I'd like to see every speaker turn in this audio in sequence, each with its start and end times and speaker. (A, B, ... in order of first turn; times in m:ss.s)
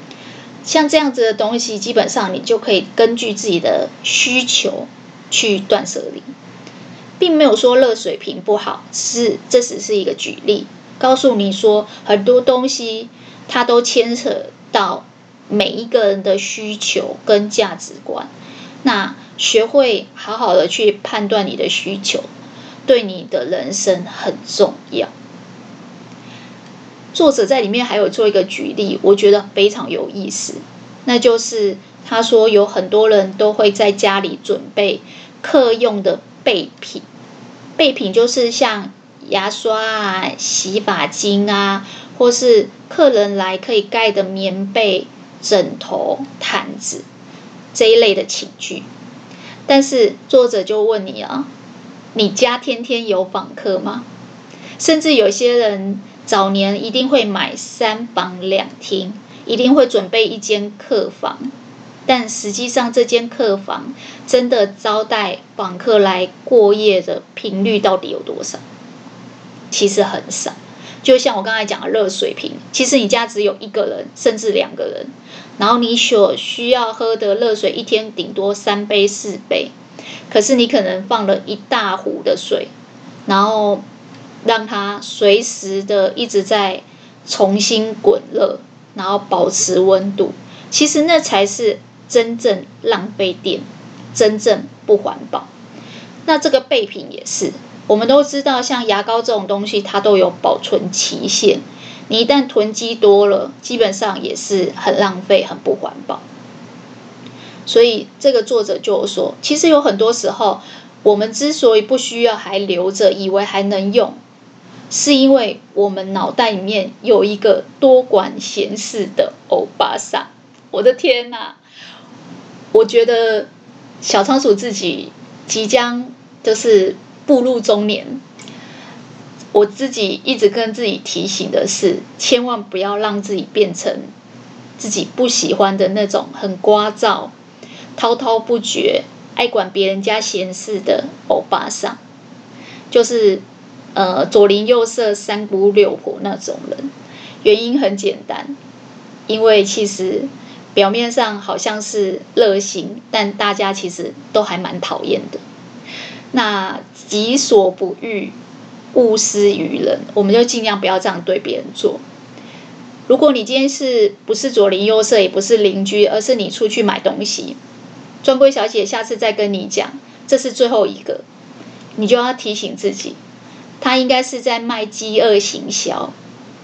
0:00.6-0:06.3 A
0:07.2-0:18.3 A
0:18.8-0:22.3 A
0:22.8-0:25.1 A
0:27.1-0:37.0 A
0:37.8-0:47.0 A
0:47.7-0:48.9 A
0:49.7-0:51.5 A
0:52.1-0:54.0 A
0:54.8-1:01.5 A
1:02.1-1:08.6 A
1:09.7-1:19.7 A
1:20.3-1:22.7 A
1:23.3-1:23.8 A
1:24.4-1:35.5 A
1:36.2-1:46.2 A
1:47.7-1:54.2 A
1:54.9-2:01.6 A
2:02.7-2:03.5 A
2:04.0-2:08.2 A
2:09.5-2:14.1 A
2:14.8-2:17.3 A
2:18.0-2:22.0 A
2:22.9-2:23.4 A
2:23.9-2:26.9 A
2:27.4-2:28.5 A
2:29.3-2:35.4 A
2:36.3-2:38.3 A
2:38.9-2:42.0 A
2:43.1-2:47.6 A
2:48.2-2:51.2 A
2:52.0-2:53.2 A
2:53.8-2:56.1 A